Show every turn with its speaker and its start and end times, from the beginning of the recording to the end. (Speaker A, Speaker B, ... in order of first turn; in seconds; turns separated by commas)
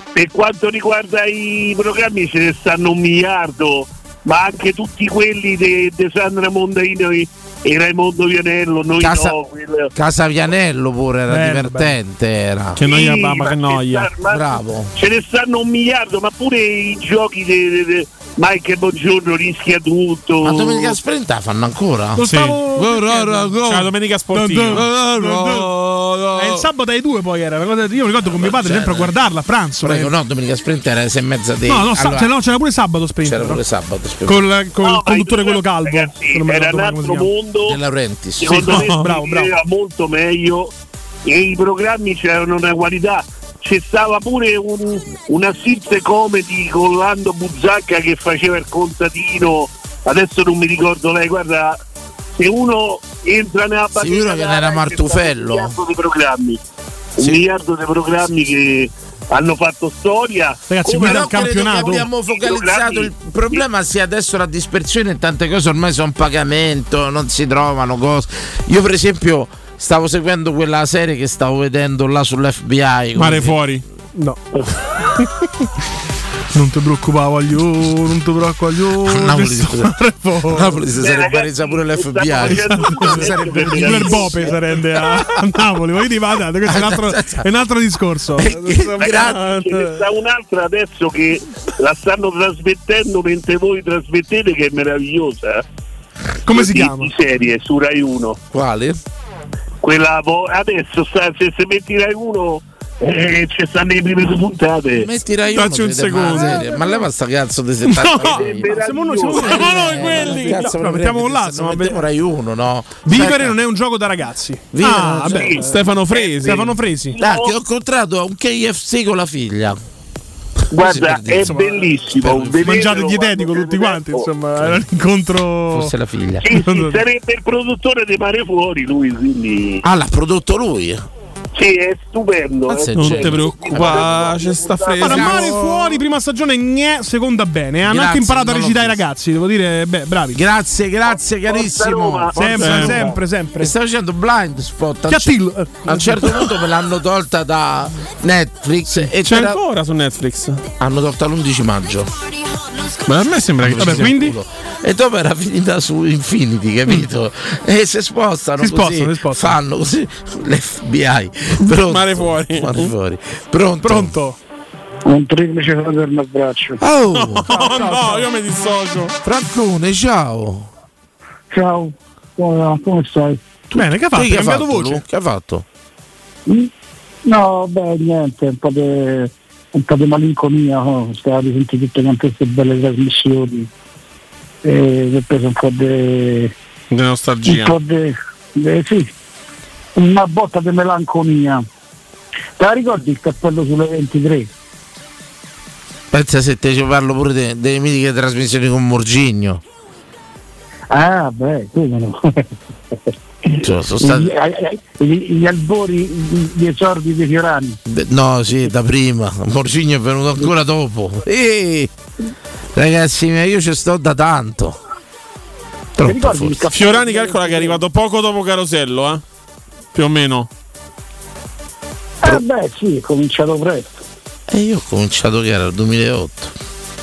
Speaker A: 0.1-9.9, Speaker B: 9.0-9.4, Speaker B: 9.9-12.8, Speaker C: 11.3-11.9, Speaker D: 12.8-14.1, Speaker A: 12.8-21.0, Speaker B: 14.3-14.9, Speaker B: 20.4-23.9, Speaker C: 22.2-23.5, Speaker D: 22.3-22.6, Speaker D: 23.6-24.9, Speaker C: 24.3-25.8, Speaker B: 24.7-25.8, Speaker D: 25.4-26.2, Speaker C: 26.3-30.1, Speaker B: 28.2-29.1, Speaker B: 29.8-32.3, Speaker C: 31.7-33.6, Speaker B: 33.2-34.5, Speaker C: 34.3-37.3, Speaker A: 34.8-37.8, Speaker B: 37.6-38.9, Speaker A: 38.4-40.7, Speaker C: 38.5-39.5, Speaker D: 38.6-39.0, Speaker A: 41.2-51.8, Speaker A: 52.4-56.6, Speaker B: 54.0-55.8, Speaker A: 57.2-63.6, Speaker C: 60.7-62.1, Speaker B: 60.9-73.6, Speaker D: 73.2-73.8, Speaker C: 76.5-80.8, Speaker B: 79.0-79.9, Speaker B: 80.5-84.5, Speaker A: 81.0-84.5, Speaker C: 82.4-90.0, Speaker B: 86.7-87.5, Speaker B: 88.4-89.4, Speaker A: 89.0-95.6, Speaker C: 96.5-97.1, Speaker A: 96.5-98.4, Speaker B: 98.5-99.0, Speaker A: 99.8-105.1, Speaker B: 104.9-113.6, Speaker D: 105.5-106.7, Speaker D: 108.0-108.4, Speaker C: 108.0-112.0, Speaker A: 108.3-109.4, Speaker D: 109.5-110.7, Speaker C: 113.0-115.8, Speaker B: 114.7-115.6, Speaker A: 115.3-115.6, Speaker D: 115.7-116.7, Speaker A: 116.1-117.5, Speaker C: 116.4-117.2, Speaker B: 117.2-119.8, Speaker A: 120.7-124.3, Speaker B: 120.8-122.8, Speaker C: 121.4-122.0, Speaker C: 122.6-125.9, Speaker B: 125.7-126.5, Speaker A: 126.4-129.8, Speaker C: 126.5-127.0, Speaker B: 129.8-131.0, Speaker A: 131.6-135.0, Speaker B: 132.7-134.3, Speaker D: 132.9-135.6, Speaker B: 135.0-135.6, Speaker C: 135.0-140.4, Speaker B: 137.8-139.0, Speaker B: 140.3-145.3, Speaker A: 141.5-142.5, Speaker C: 142.3-143.7, Speaker D: 142.6-143.1, Speaker C: 145.1-146.4, Speaker B: 145.9-149.6, Speaker D: 149.2-150.6, Speaker B: 150.8-152.1, Speaker D: 153.1-154.1, Speaker B: 153.6-164.2, Speaker C: 153.8-154.4, Speaker C: 158.6-159.5, Speaker D: 161.7-162.9, Speaker C: 163.8-164.4, Speaker E: 165.1-166.8, Speaker B: 166.8-167.5, Speaker D: 167.1-169.1, Speaker C: 167.5-168.3, Speaker B: 169.2-170.7, Speaker E: 171.5-173.4, Speaker C: 173.7-175.0, Speaker B: 173.7-175.7, Speaker E: 177.2-183.7, Speaker E: 184.6-186.5, Speaker D: 186.9-187.8, Speaker E: 187.5-189.1, Speaker E: 190.0-191.7, Speaker E: 192.6-194.5, Speaker B: 196.1-199.6, Speaker E: 200.9-202.5, Speaker E: 203.5-207.8, Speaker B: 203.6-204.3, Speaker B: 207.9-211.9, Speaker B: 212.8-214.8, Speaker B: 216.0-216.7, Speaker E: 216.0-217.8, Speaker D: 216.7-219.2, Speaker D: 219.9-220.5, Speaker E: 222.2-224.0, Speaker B: 224.5-226.5